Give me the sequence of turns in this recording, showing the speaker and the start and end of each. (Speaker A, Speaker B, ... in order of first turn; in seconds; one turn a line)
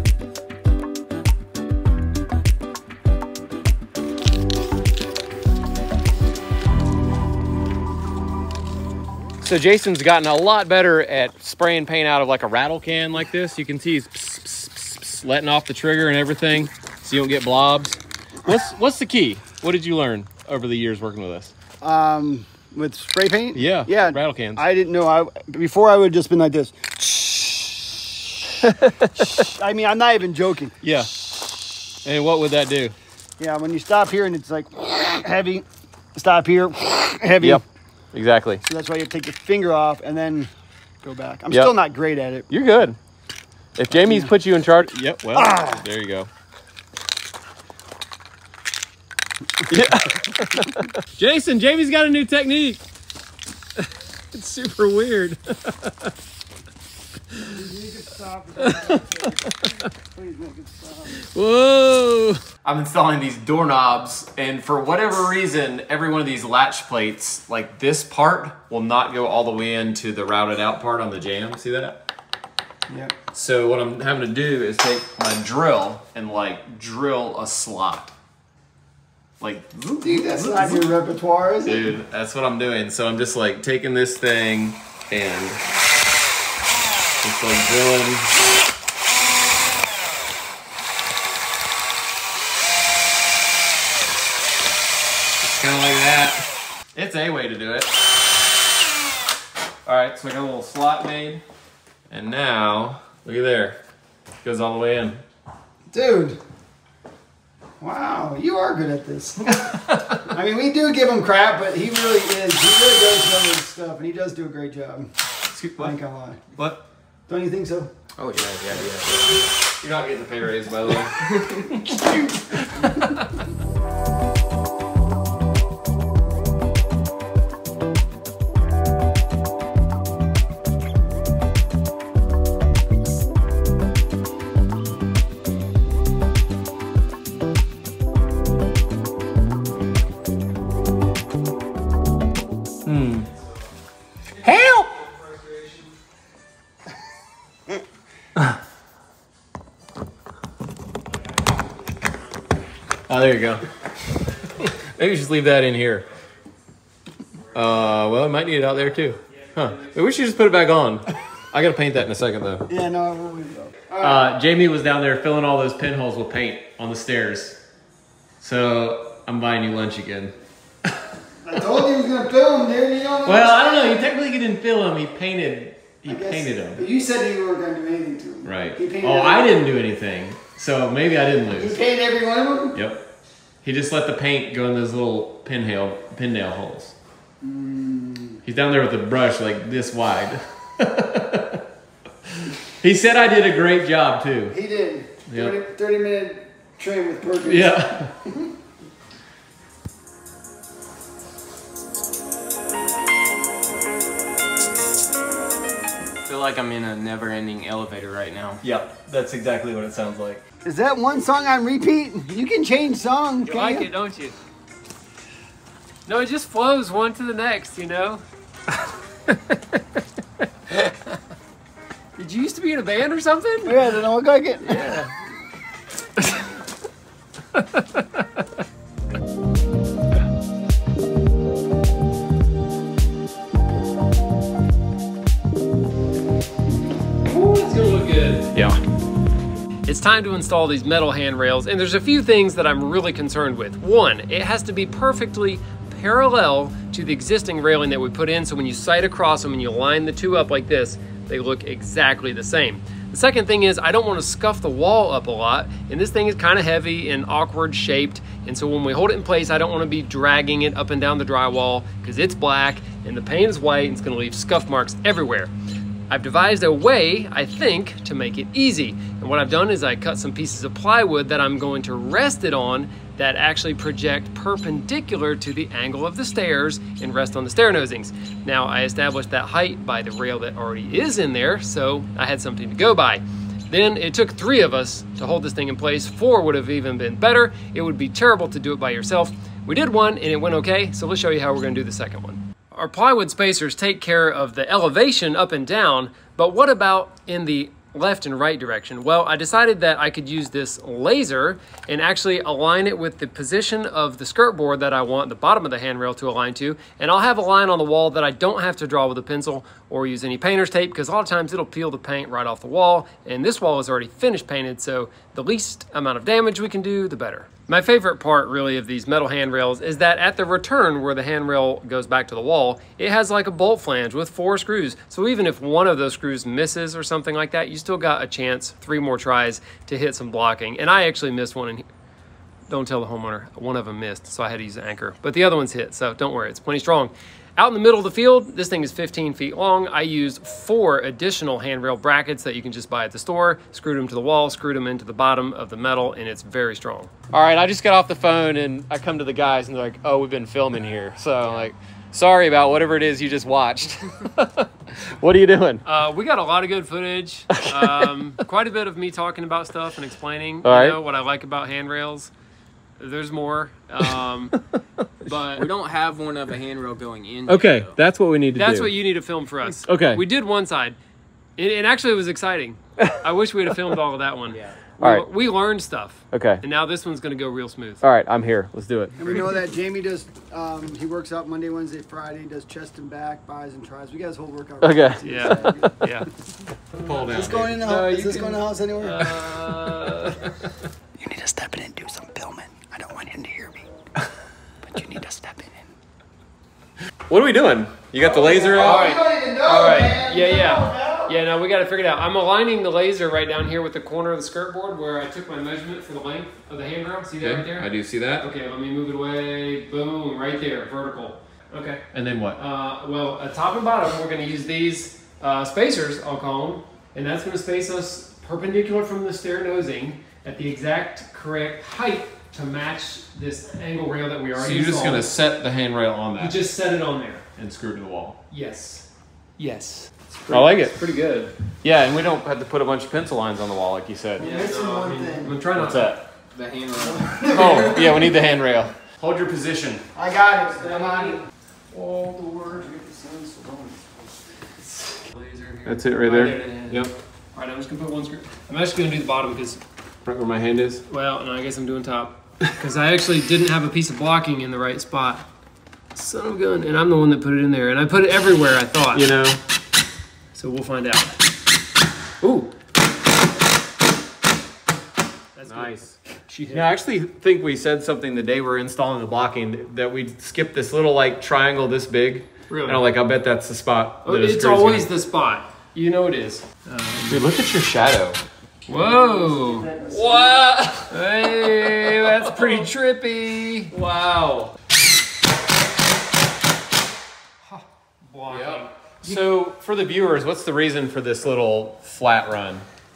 Speaker A: 9.4-21.5
Speaker B: 21.8-28.2
Speaker A: 23.5-24.6
Speaker A: 28.6-29.3
Speaker B: 29.1-30.7
Speaker A: 30.8-31.1
Speaker A: 32.0-32.9
Speaker B: 33.4-37.6
Speaker A: 38.1-38.6
Speaker B: 38.6-40.5
Speaker B: 41.0-42.5
Speaker A: 42.5-43.0
Speaker A: 43.8-46.3
Speaker B: 43.9-44.3
Speaker B: 45.3-45.8
Speaker A: 49.7-50.9
Speaker C: 51.2-52.8
Speaker C: 54.3-55.4
Speaker B: 57.4-61.2
Speaker A: 58.6-59.3
Speaker A: 61.2-72.0
Speaker B: 72.9-73.1
Speaker A: 73.3-78.1
Speaker A: 79.4-80.9
Speaker B: 80.0-82.0
Speaker A: 81.6-85.6
Speaker A: 87.2-88.3
Speaker A: 95.4-97.9
Speaker A: 99.9-101.4
Speaker A: 102.1-103.8
Speaker A: 104.4-105.2
Speaker B: 105.9-106.4
Speaker B: 107.8-109.6
Speaker A: 109.5-110.2
Speaker B: 110.2-115.1
Speaker A: 115.5-115.9
Speaker B: 115.8-116.5
Speaker A: 116.5-116.9
Speaker B: 117.3-117.9
Speaker A: 118.2-123.2
Speaker A: 142.9-143.3
Speaker A: 144.4-144.9
Speaker D: 144.5-144.9
Speaker C: 144.5-145.9
Speaker A: 153.1-153.6
Speaker A: 154.6-156.1
Speaker A: 157.5-162.7
Speaker C: 159.3-160.0
Speaker B: 162.7-164.3
Speaker A: 164.0-167.6
Speaker A: 168.4-170.3
Speaker B: 171.4-174.0
Speaker A: 173.2-176.8
Speaker B: 176.0-179.5
Speaker A: 178.4-181.8
Speaker B: 181.5-182.8
Speaker A: 182.7-183.1
Speaker A: 183.6-186.9
Speaker B: 187.4-188.4
Speaker A: 188.4-191.6
Speaker A: 192.4-194.6
Speaker B: 194.5-198.5
Speaker A: 195.3-195.6
Speaker A: 197.5-198.1
Speaker D: 206.2-208.6
Speaker A: 208.6-210.4
Speaker B: 210.6-213.9
Speaker C: 213.4-214.4
Speaker C: 216.1-218.2
Speaker C: 222.2-223.8
Speaker B: 223.6-225.0
Speaker C: 224.7-225.1
Speaker C: 237.3-238.5
Speaker C: 239.9-265.5
Speaker C: 266.1-331.9
Speaker C: 332.7-347.1
Speaker A: 347.3-355.8
Speaker C: 355.9-362.3
Speaker A: 357.5-358.1
Speaker A: 360.6-361.0
Speaker C: 363.0-364.6
Speaker C: 365.2-365.6
Speaker D: 365.5-368.0
Speaker A: 367.5-368.9
Speaker C: 368.6-371.0
Speaker A: 369.8-370.2
Speaker C: 371.6-378.0
Speaker D: 374.5-374.8
Speaker A: 375.0-375.2
Speaker A: 376.3-376.6
Speaker A: 378.0-379.2
Speaker B: 379.2-385.9
Speaker A: 384.8-386.1
Speaker C: 385.2-386.3
Speaker A: 386.9-387.9
Speaker B: 387.1-389.2
Speaker C: 387.8-390.5
Speaker B: 391.2-393.9
Speaker B: 394.9-395.9
Speaker A: 397.3-399.1
Speaker B: 398.2-401.4
Speaker C: 398.7-412.0
Speaker A: 407.4-408.4
Speaker A: 412.1-412.6
Speaker C: 412.6-425.3
Speaker A: 424.6-426.6
Speaker C: 426.4-427.4
Speaker A: 427.6-428.4
Speaker C: 428.5-431.5
Speaker A: 430.5-430.9
Speaker A: 431.8-434.4
Speaker C: 434.4-436.1
Speaker B: 434.4-435.6
Speaker A: 435.8-436.2
Speaker D: 436.5-437.9
Speaker B: 437.1-438.4
Speaker A: 437.4-440.1
Speaker B: 440.1-441.4
Speaker C: 440.8-442.9
Speaker B: 442.7-444.1
Speaker C: 444.9-449.8
Speaker A: 445.9-447.1
Speaker A: 450.2-451.0
Speaker C: 451.1-455.5
Speaker C: 456.1-459.3
Speaker A: 459.1-459.6
Speaker C: 460.5-461.4
Speaker C: 462.4-462.7
Speaker C: 465.6-466.9
Speaker A: 465.7-466.2
Speaker A: 466.7-475.1
Speaker C: 472.7-473.0
Speaker C: 474.2-477.4
Speaker A: 477.3-478.4
Speaker C: 478.9-480.0
Speaker B: 479.1-480.5
Speaker A: 480.1-482.9
Speaker C: 481.1-483.9
Speaker A: 483.9-484.7
Speaker C: 487.6-489.4
Speaker A: 488.5-492.9